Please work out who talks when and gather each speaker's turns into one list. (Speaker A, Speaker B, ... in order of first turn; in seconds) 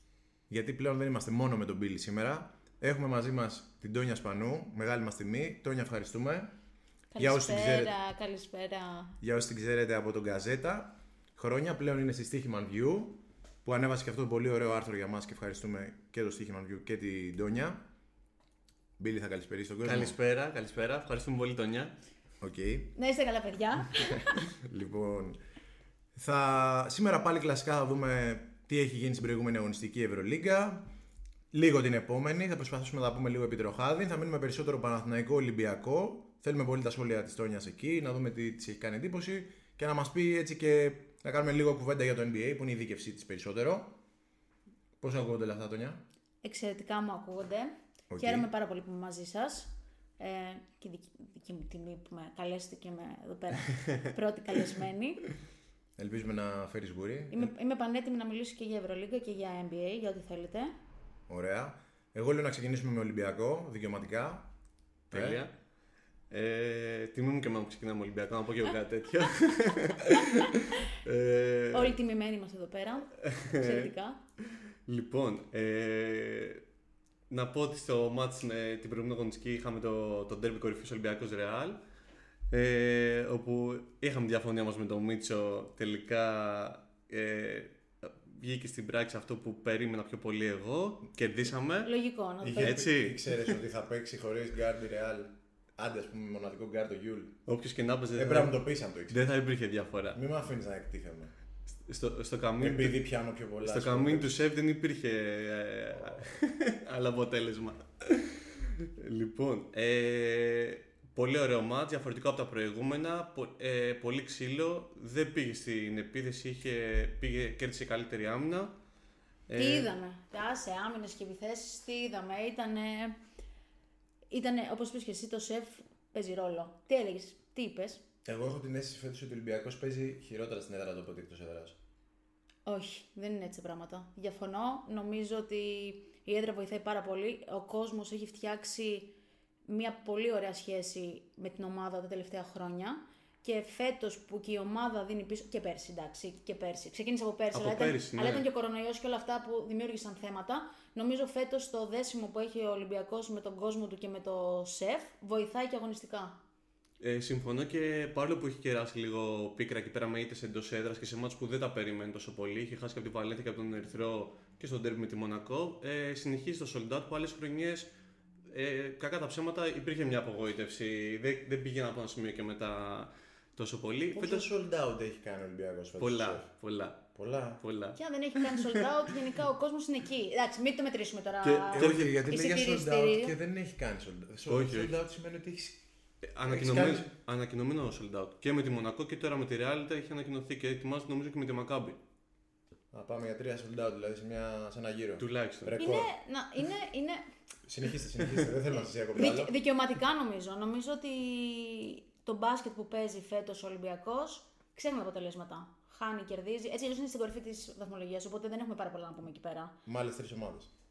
Speaker A: 0.5-6.5, 7.2-7.9, 9.2-17.8, 19.0-20.1, 22.4-22.9, 24.0-25.4, 26.1-30.9, 31.5-43.9, 45.0-46.0, 48.1-48.5, 56.0-57.5, 61.3-64.5, 65.1-65.4, 92.4-97.4, 98.1-99.3, 100.1-101.3, 102.6-104.4, 105.9-106.2, 128.2-131.8, 174.1-176.5, 177.1-177.6, 181.7-185.8, 186.4-187.1, 192.9-196.1, 197.7-199.5, 209.8-210.7
Speaker B: 7.1-9.2, 22.9-24.5, 46.4-55.2, 57.3-60.7, 71.7-74.2, 91.8-92.8, 119.5-123.2, 124.3-128.0, 132.7-139.1, 139.7-156.3, 177.9-183.3, 195.8-197.2, 198.7-209.7
Speaker C: 19.8-21.9, 65.1-65.5, 66.3-72.0, 73.2-73.9, 74.9-76.6, 77.3-81.8, 82.5-91.9, 92.6-93.6, 97.5-100.2, 101.8-103.0, 103.6-118.7, 119.5-119.9, 147.5-148.4, 157.0-167.9, 168.5-174.5, 176.0-177.0, 177.6-178.7, 181.4-182.1, 184.5-184.9, 186.3-192.0, 195.2-195.8